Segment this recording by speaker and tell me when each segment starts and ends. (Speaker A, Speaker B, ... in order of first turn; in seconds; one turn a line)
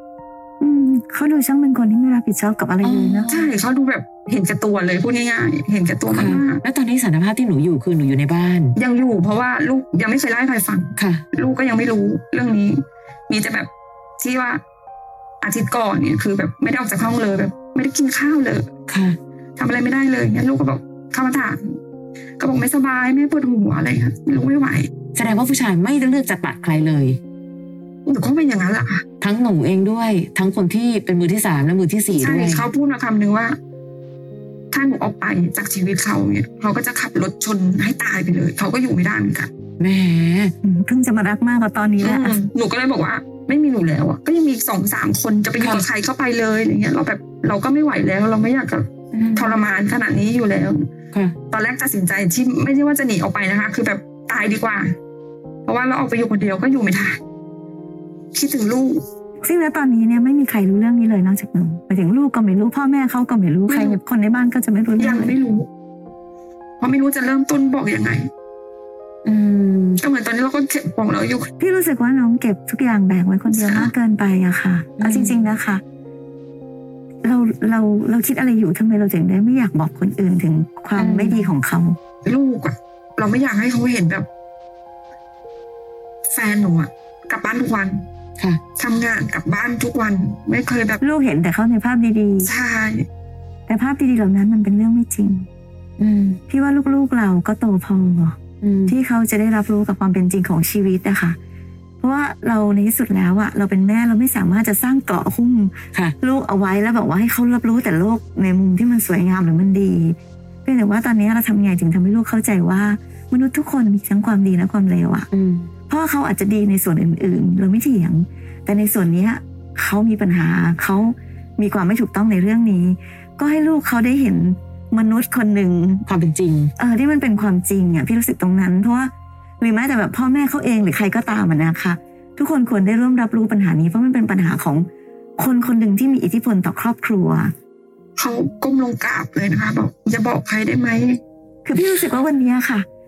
Speaker A: 0.6-3.3
Speaker B: 2.8-3.5
Speaker C: 3.3-6.6
Speaker B: 6.1-8.7
Speaker C: 8.8-14.6
Speaker B: 11.0-11.2
Speaker C: 15.4-18.7
Speaker B: 18.9-19.2
Speaker C: 19.6-21.8
Speaker C: 22.4-24.9
Speaker B: 25.1-27.2
Speaker C: 28.1-29.0
Speaker B: 29.2-32.7
Speaker C: 32.1-33.5
Speaker C: 34.7-39.5
Speaker B: 39.8-40.5
Speaker A: 40.6-42.4
Speaker C: 42.0-50.9
Speaker B: 49.1-49.6
Speaker C: 51.5-54.9
Speaker C: 55.6-57.2
Speaker C: 58.3-59.0
Speaker A: 59.4-65.3
Speaker C: 63.7-64.0
Speaker C: 65.0-65.7
Speaker C: 66.8-68.3
Speaker B: 69.2-70.0
Speaker C: 70.0-71.5
Speaker A: 71.6-75.8
Speaker C: 73.5-73.9
Speaker B: 75.0-75.5
Speaker A: 77.2-82.0
Speaker B: 81.0-81.5
Speaker C: 82.2-84.3
Speaker C: 86.3-88.0
Speaker C: 88.8-91.0
Speaker A: 91.0-92.5
Speaker C: 92.4-93.1
Speaker A: 93.7-95.5
Speaker B: 96.0-96.4
Speaker A: 96.5-98.3
Speaker B: 98.6-98.9
Speaker A: 98.9-101.3
Speaker A: 102.0-115.3
Speaker B: 115.3-115.7
Speaker A: 115.9-126.0
Speaker B: 126.1-126.7
Speaker A: 126.8-134.9
Speaker A: 135.4-137.5
Speaker C: 138.2-141.2
Speaker A: 141.6-142.8